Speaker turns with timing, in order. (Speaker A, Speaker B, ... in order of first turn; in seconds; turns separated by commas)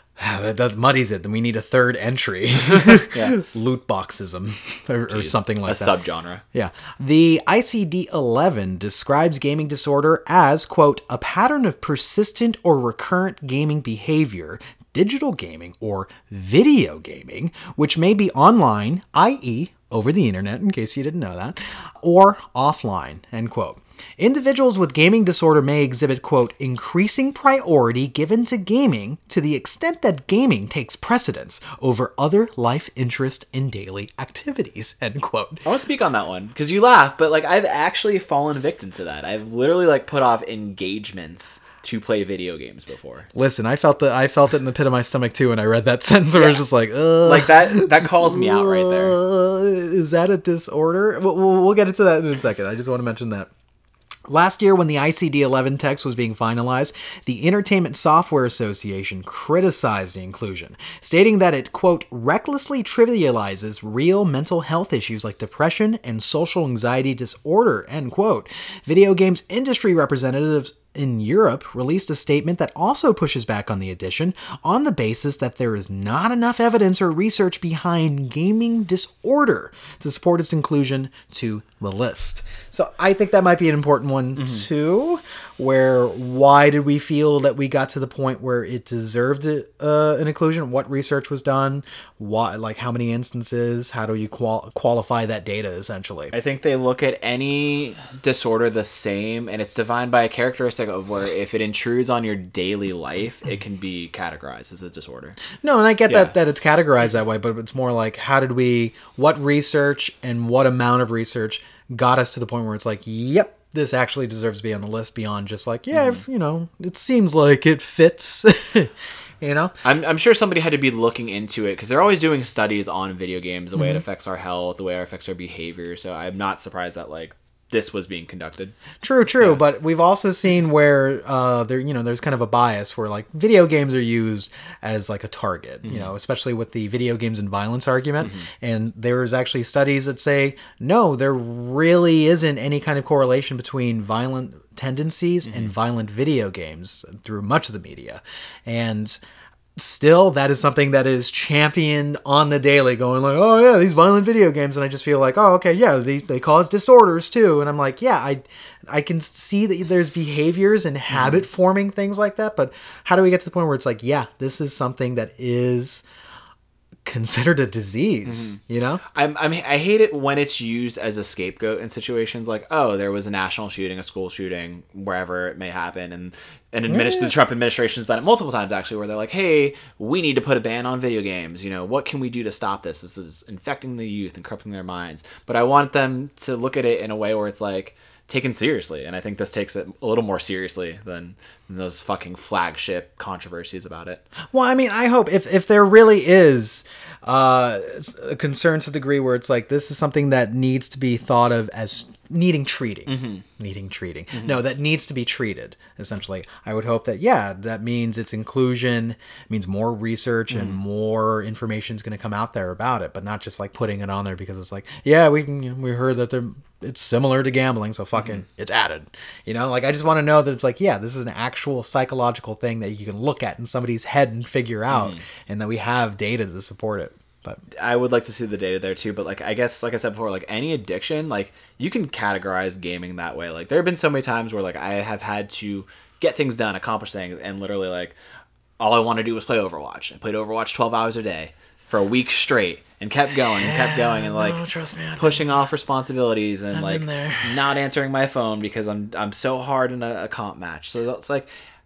Speaker A: 0.2-6.0, Speaker B: 2.8-3.4, Speaker B: 5.1-6.4, Speaker A: 6.5-35.6, Speaker B: 35.6-43.3, Speaker A: 43.3-53.5, Speaker B: 46.3-46.6, Speaker B: 47.2-49.2, Speaker A: 54.3-96.3, Speaker B: 96.3-105.4, Speaker A: 105.6-119.7, Speaker B: 106.1-106.3, Speaker B: 119.8-128.7, Speaker A: 129.0-149.2, Speaker B: 135.8-136.1, Speaker A: 149.8-166.0, Speaker B: 161.1-161.4, Speaker A: 167.0-169.0, Speaker B: 168.3-194.2, Speaker A: 176.9-177.3, Speaker A: 194.5-227.6, Speaker B: 203.1-203.4, Speaker B: 210.5-210.8, Speaker B: 224.9-225.2, Speaker B: 227.8-238.2, Speaker B: 238.8-244.6, Speaker A: 243.6-245.5, Speaker B: 245.2-251.5, Speaker A: 246.7-247.6